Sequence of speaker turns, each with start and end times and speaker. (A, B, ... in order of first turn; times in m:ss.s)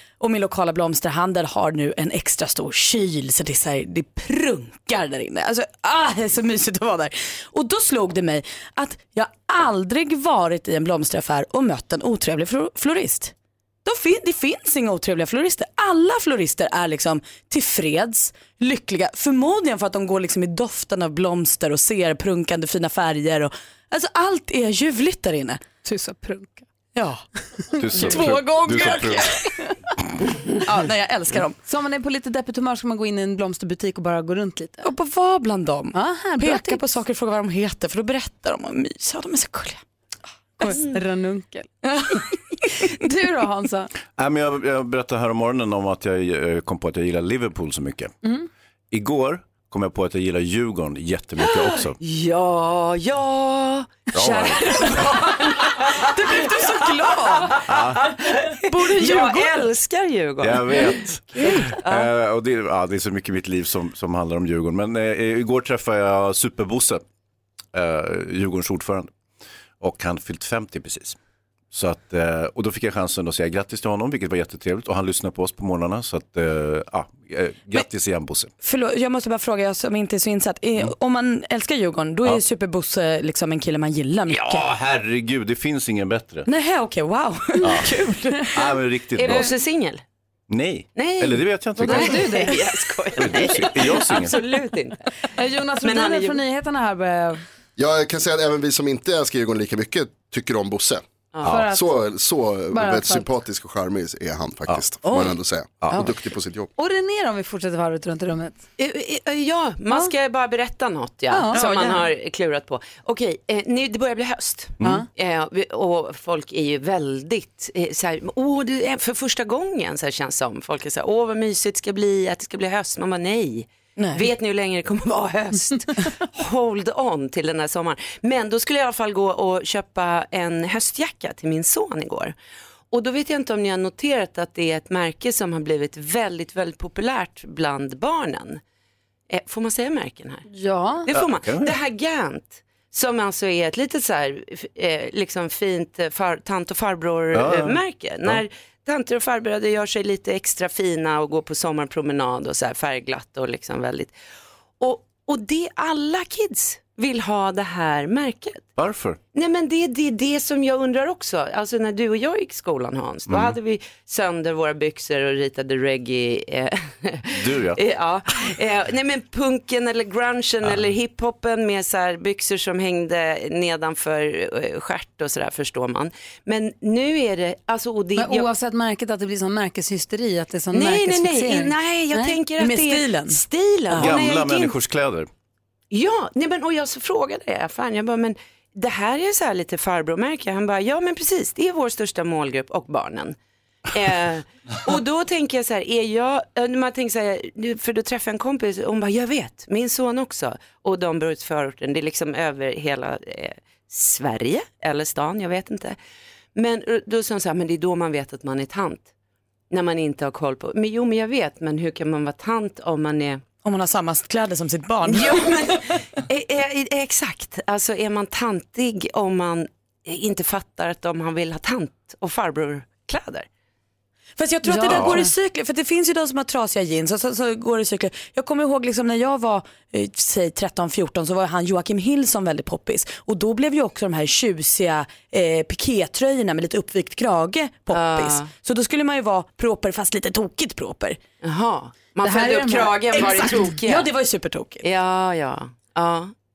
0:00.2-0:13.3 A
0:13.8-0:25.6 A
0:25.8-0:26.7 B
0:26.9-0:27.2 A
0:27.8-0:29.4 C
0:27.9-0:28.2 B
0:27.9-0:29.5 A
0:30.6-0:31.6 A
0:31.6-0:34.9 B
0:34.8-0:39.8 A
0:35.9-0:37.0 B
0:40.6-0:41.8 B
0:41.8-0:42.3 A
0:42.8-0:43.9 B
0:44.2-0:48.1 C
0:48.9-0:52.0 C
0:51.4-1:02.1 D
0:54.1-0:54.6 C
0:54.6-0:57.6 A
0:57.6-0:58.0 C
0:58.5-0:59.7 A
1:00.4-1:07.0 C
1:07.7-1:09.1 C
1:09.8-1:11.2 C
1:11.7-1:18.5 C
1:18.6-1:24.7 A
1:24.3-1:26.5 C
1:26.4-1:28.5 A
1:27.6-1:27.9 C
1:28.5-1:29.5 C
1:29.1-1:30.0 D
1:30.5-1:32.3 C
1:30.9-1:35.0 D
1:31.8-1:32.6 B
1:33.2-1:34.4 C
1:35.4-1:37.4 B
1:35.8-1:36.4 D
1:37.8-1:41.0 E
1:41.3-1:41.6 D
1:41.4-1:41.9 B
1:41.6-1:46.7 E
1:42.7-1:43.3 B
1:46.8-1:48.6 B
1:48.8-2:12.4 D
1:51.3-1:52.0 B
1:51.6-1:52.0 A
1:54.8-1:55.1 B
2:04.0-2:04.2 A
2:12.9-2:18.6 D
2:19.3-2:20.4 D
2:20.5-2:21.1 B
2:21.0-2:34.1 D
2:21.1-2:21.7 C
2:27.3-2:28.4 C
2:34.8-2:38.7 D
2:38.8-2:39.2 C
2:39.3-2:58.5 D
2:43.3-2:43.6 C
2:47.3-2:47.8 C
2:58.2-3:02.4 B
3:00.7-3:04.8 D
3:02.6-3:04.1 A
3:03.9-3:05.3 C
3:05.9-3:13.4 D
3:13.9-3:26.0 D
3:26.5-3:29.1 D
3:29.7-3:33.4 D
3:33.6-3:35.8 A
3:35.0-3:43.5 D
3:44.4-4:01.2 A
3:44.6-3:45.3 B
3:44.9-3:45.2 C
3:57.9-3:58.5 D
4:01.4-4:04.1 D
4:02.2-4:03.7 B
4:03.2-4:04.8 A
4:04.8-4:06.3 D